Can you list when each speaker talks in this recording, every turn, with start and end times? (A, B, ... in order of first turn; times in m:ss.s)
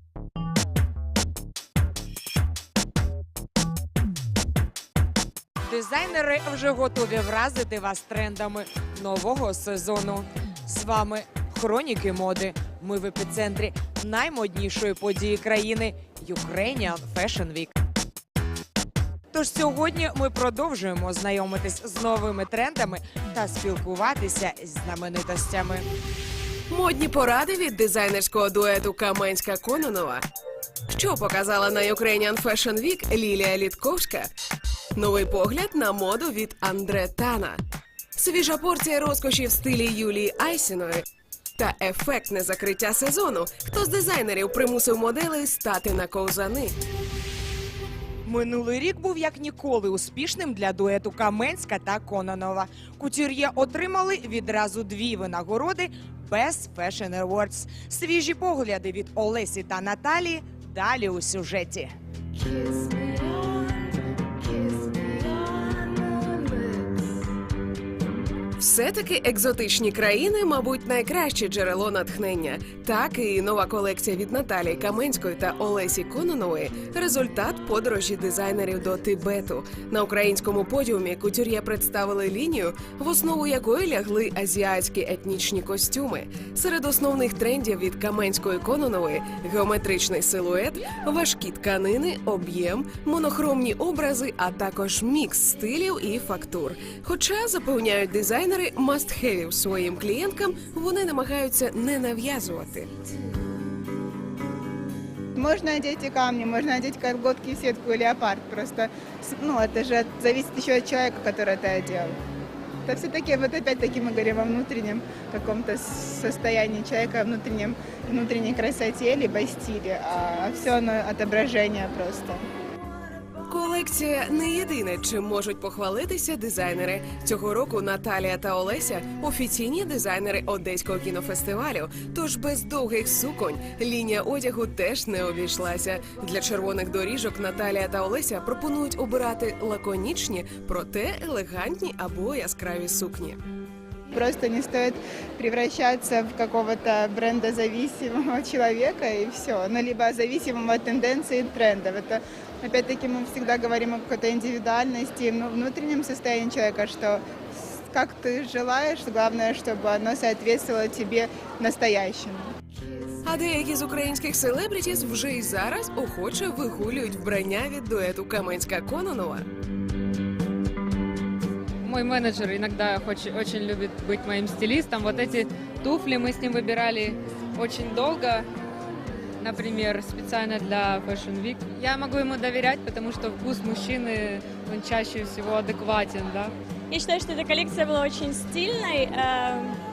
0:05.6-0:17.7 A
0:19.3-0:25.8 A
0:26.7-0:30.2 B
0:30.9-0:34.3 B
0:35.0-0:37.6 B
0:38.2-0:41.0 B
0:41.6-0:46.8 B
0:48.2-1:01.9 A
1:08.6-1:42.9 B
1:45.4-1:52.1 C
1:52.8-2:02.4 C
2:03.5-2:23.4 B
2:24.1-2:42.5 C
2:43.2-2:49.5 B
2:51.8-2:58.4 D
2:59.4-3:06.5 D
3:06.9-3:09.6 E